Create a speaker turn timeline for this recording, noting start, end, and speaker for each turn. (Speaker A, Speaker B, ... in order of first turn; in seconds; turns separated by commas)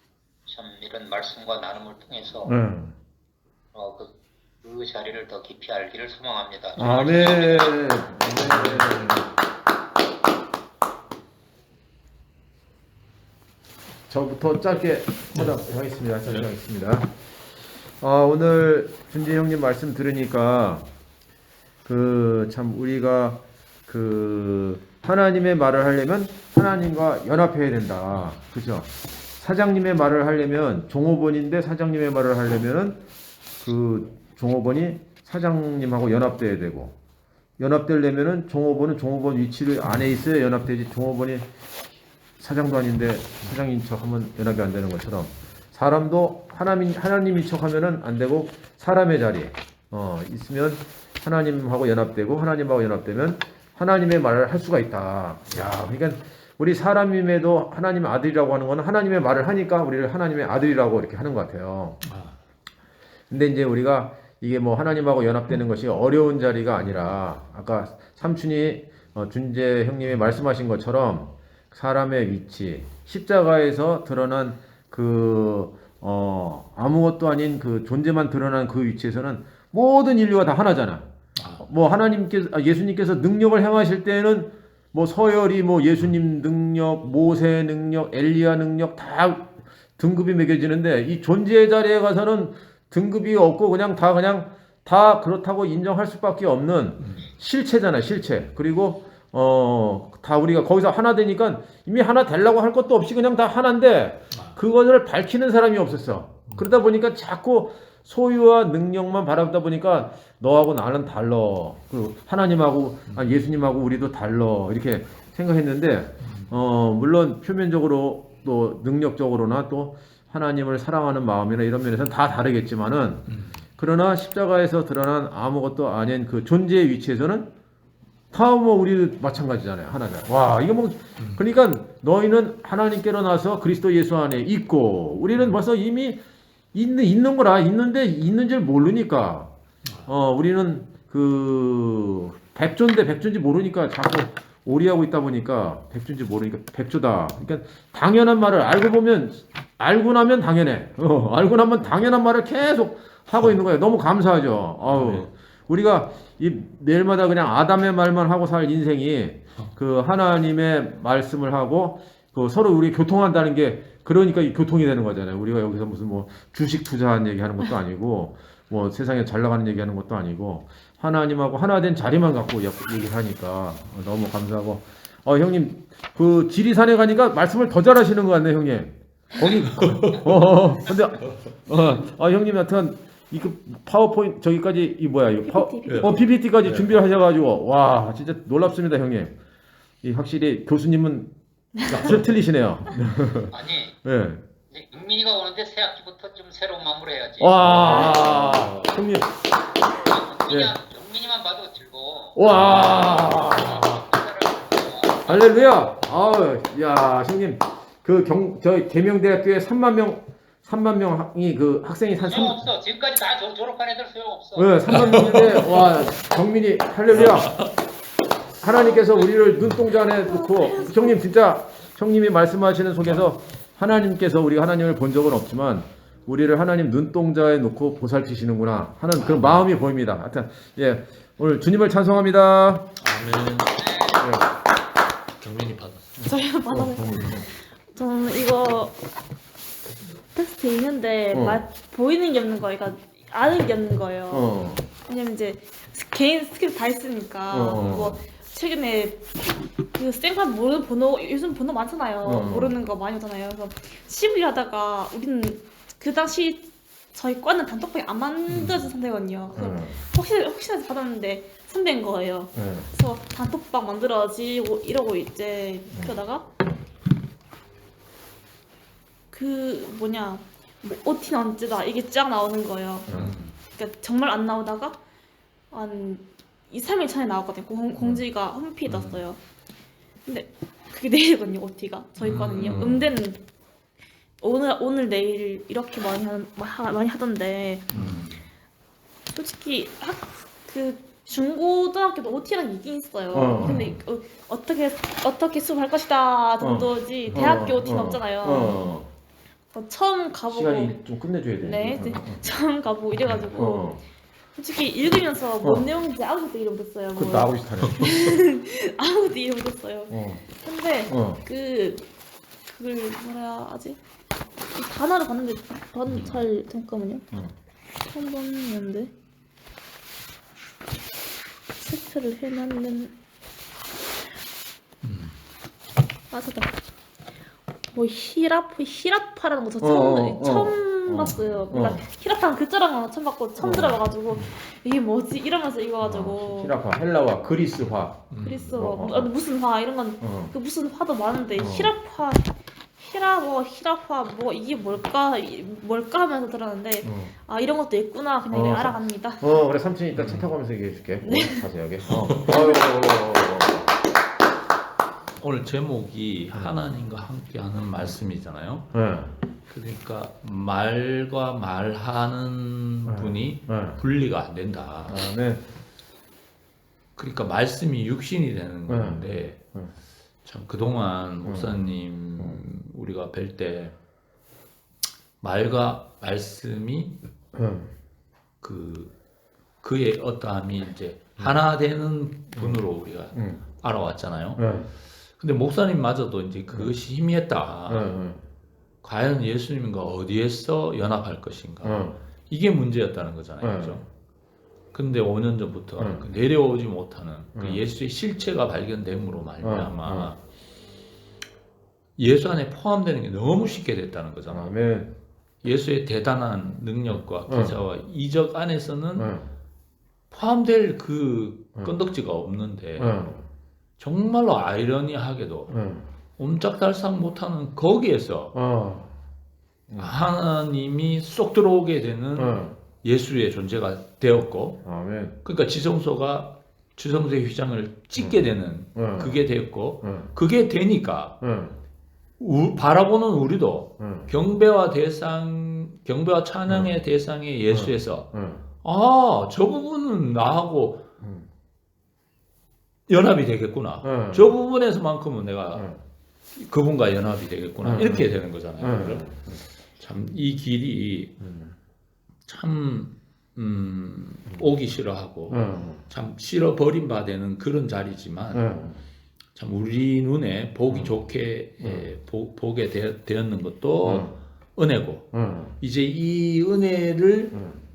Speaker A: 0.5-2.5, Speaker B: 2.5-2.9, Speaker A: 3.7-7.9, Speaker B: 6.8-9.3, Speaker C: 8.3-8.9, Speaker B: 14.1-17.2, Speaker B: 18.0-20.9, Speaker B: 21.8-33.0, Speaker C: 28.1-28.4, Speaker B: 33.6-37.0, Speaker B: 37.6-41.5, Speaker B: 42.4-62.0, Speaker C: 62.0-62.4, Speaker B: 63.3-127.5, Speaker C: 70.0-70.4, Speaker C: 81.3-81.7, Speaker C: 97.0-97.3, Speaker C: 104.3-104.6, Speaker C: 113.1-113.4, Speaker C: 116.2-116.5, Speaker C: 123.3-123.6, Speaker B: 128.3-136.2, Speaker C: 131.2-131.4, Speaker B: 136.7-139.5, Speaker C: 139.8-140.1, Speaker B: 140.1-189.3, Speaker C: 154.8-155.3, Speaker C: 179.7-180.3, Speaker D: 185.4-186.1, Speaker C: 185.8-187.0, Speaker B: 190.0-191.3, Speaker D: 191.8-192.1, Speaker B: 191.8-193.5, Speaker A: 193.5-194.0, Speaker B: 194.0-194.4, Speaker A: 194.7-198.7, Speaker B: 197.4-199.3, Speaker C: 197.6-198.7, Speaker A: 199.9-205.7, Speaker B: 202.3-204.0, Speaker C: 202.5-203.0, Speaker B: 205.2-212.6, Speaker A: 212.2-215.7, Speaker B: 214.6-217.5, Speaker C: 214.9-215.8, Speaker C: 217.1-217.7, Speaker B: 218.6-232.9, Speaker D: 218.7-219.2, Speaker D: 220.0-221.2, Speaker C: 223.0-223.2, Speaker C: 229.2-229.7, Speaker C: 233.0-234.2, Speaker B: 234.2-234.5, Speaker C: 235.4-236.2, Speaker B: 236.2-237.5, Speaker D: 236.2-238.9, Speaker D: 240.2-244.4, Speaker B: 241.3-241.6, Speaker B: 244.3-244.9, Speaker D: 245.0-249.2, Speaker B: 247.5-248.2, Speaker D: 249.9-266.5, Speaker B: 252.2-252.8, Speaker C: 258.5-258.9, Speaker B: 259.5-260.0, Speaker B: 262.5-262.9, Speaker B: 265.9-266.2, Speaker D: 269.3-273.1, Speaker B: 273.1-273.4, Speaker C: 273.1-273.5, Speaker D: 273.7-275.0, Speaker D: 275.7-279.4, Speaker B: 278.0-278.2, Speaker C: 278.9-279.2, Speaker D: 280.2-283.4, Speaker C: 282.2-283.1, Speaker B: 282.6-283.1, Speaker D: 284.4-287.9, Speaker B: 287.9-288.4, Speaker C: 287.9-288.3, Speaker D: 289.3-298.8, Speaker B: 293.3-294.0, Speaker C: 293.6-293.9, Speaker B: 296.6-299.1, Speaker D: 299.7-304.0, Speaker B: 300.5-302.4, Speaker B: 303.3-304.0, Speaker D: 304.5-312.1, Speaker B: 305.6-305.9, Speaker B: 307.1-308.2, Speaker B: 310.1-310.5, Speaker B: 311.1-311.4, Speaker D: 312.6-314.0, Speaker D: 314.7-317.2, Speaker C: 316.1-316.4, Speaker D: 318.1-319.1, Speaker D: 321.8-323.1, Speaker C: 325.0-325.4, Speaker D: 326.3-326.7, Speaker D: 327.9-336.7, Speaker B: 329.8-332.1, Speaker C: 331.2-331.6, Speaker B: 333.6-334.0, Speaker B: 336.0-339.3, Speaker C: 338.3-338.8, Speaker D: 338.4-349.6, Speaker B: 340.2-340.5, Speaker B: 341.6-341.9, Speaker B: 347.0-347.3, Speaker B: 348.5-353.9, Speaker C: 350.1-350.5, Speaker D: 351.2-351.6, Speaker C: 352.0-352.5, Speaker D: 352.5-352.9, Speaker C: 355.4-358.9, Speaker B: 358.9-359.4, Speaker C: 359.7-365.2, Speaker B: 363.1-364.0, Speaker B: 365.1-365.6, Speaker C: 367.1-369.6, Speaker B: 368.9-369.9, Speaker C: 370.4-373.9, Speaker B: 371.4-371.9, Speaker C: 375.4-377.2, Speaker B: 377.5-377.9, Speaker C: 378.6-379.1, Speaker C: 379.8-384.8, Speaker B: 382.6-383.6, Speaker B: 384.6-384.9, Speaker C: 385.3-388.1, Speaker B: 387.9-388.4, Speaker C: 389.0-394.1, Speaker B: 391.8-392.2, Speaker B: 393.6-394.0, Speaker C: 394.9-400.4, Speaker B: 396.0-396.2, Speaker B: 397.5-397.8, Speaker B: 399.6-400.3, Speaker C: 402.2-404.7, Speaker B: 404.5-405.1, Speaker C: 405.6-409.4, Speaker B: 407.1-407.8, Speaker B: 409.1-409.5, Speaker C: 410.3-413.2, Speaker B: 413.0-413.5, Speaker C: 414.0-415.7, Speaker B: 415.7-416.1, Speaker C: 416.4-418.5, Speaker B: 418.5-419.1, Speaker B: 419.9-420.2, Speaker C: 420.0-424.8, Speaker B: 422.3-422.8, Speaker B: 424.8-425.4, Speaker C: 425.4-431.4, Speaker B: 428.1-430.3, Speaker B: 431.4-431.8, Speaker C: 432.4-441.0, Speaker B: 434.0-434.3, Speaker B: 436.7-437.0, Speaker B: 437.7-438.6, Speaker B: 441.2-441.5, Speaker C: 443.1-445.9, Speaker B: 444.0-444.5, Speaker B: 445.7-446.0, Speaker C: 446.5-451.3, Speaker B: 447.8-449.6, Speaker B: 451.4-451.7, Speaker C: 452.4-458.9, Speaker B: 455.5-456.1, Speaker B: 458.5-459.0, Speaker C: 459.5-467.6, Speaker B: 460.9-461.3, Speaker B: 461.8-462.1, Speaker B: 464.0-464.4, Speaker B: 465.3-465.8, Speaker B: 467.5-467.8